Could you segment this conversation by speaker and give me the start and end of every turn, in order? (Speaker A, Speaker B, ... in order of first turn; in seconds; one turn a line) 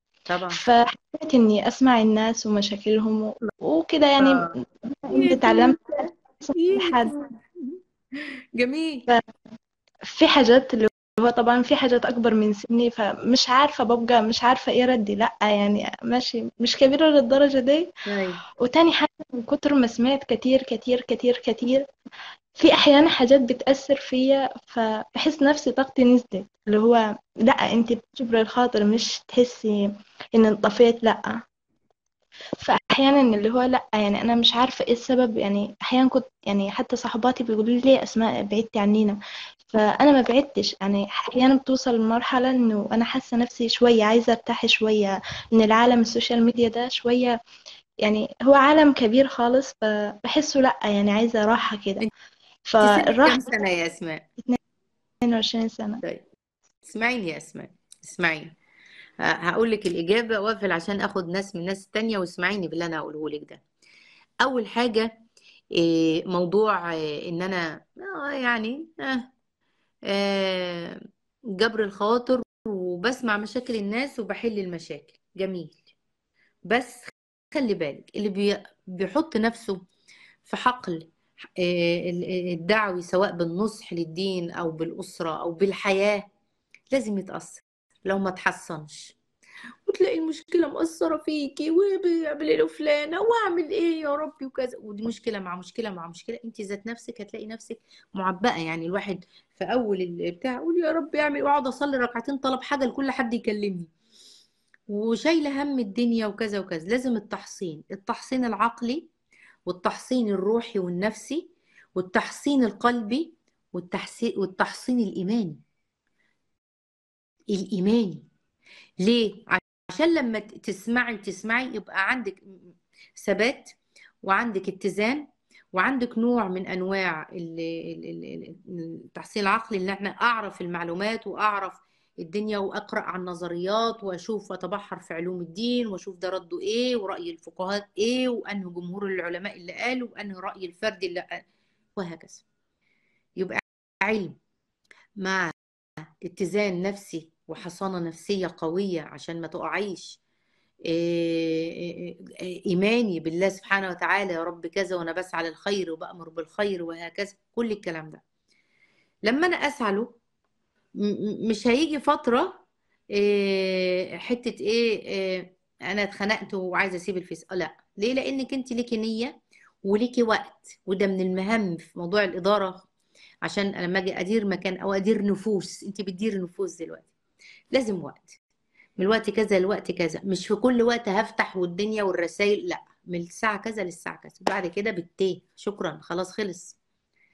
Speaker A: 0.3-0.6
Speaker B: 0.5-5.8
Speaker A: 4.2-4.5
Speaker A: 5.1-5.8
Speaker B: 6.4-7.1
Speaker A: 6.5-9.1
Speaker B: 10.1-17.9
Speaker A: 18.1-18.4
Speaker B: 18.6-21.9
Speaker B: 22.6-31.4
Speaker B: 32.6-47.4
Speaker B: 48.0-52.0
Speaker B: 52.7-53.4
Speaker A: 52.8-54.2
Speaker B: 55.2-56.0
Speaker A: 56.8-58.5
Speaker A: 59.2-63.6
Speaker A: 64.4-65.1
Speaker A: 65.8-69.3
Speaker A: 70.1-71.0
Speaker A: 71.6-75.8
Speaker A: 76.7-79.8
Speaker A: 80.4-86.2
Speaker A: 86.9-89.2
Speaker A: 89.9-103.9
Speaker A: 104.9-109.1
Speaker A: 109.7-115.6
Speaker A: 117.5-118.2
Speaker A: 119.0-122.6
Speaker A: 123.2-141.4
Speaker A: 141.9-142.4
Speaker A: 143.4-144.4
Speaker A: 145.2-145.5
Speaker A: 146.2-150.2
Speaker A: 150.9-152.1
Speaker A: 152.7-158.2
Speaker A: 159.3-160.2
Speaker A: 161.0-162.6
Speaker A: 163.1-172.9
Speaker A: 173.4-177.1
Speaker A: 177.7-178.4
Speaker A: 179.0-186.8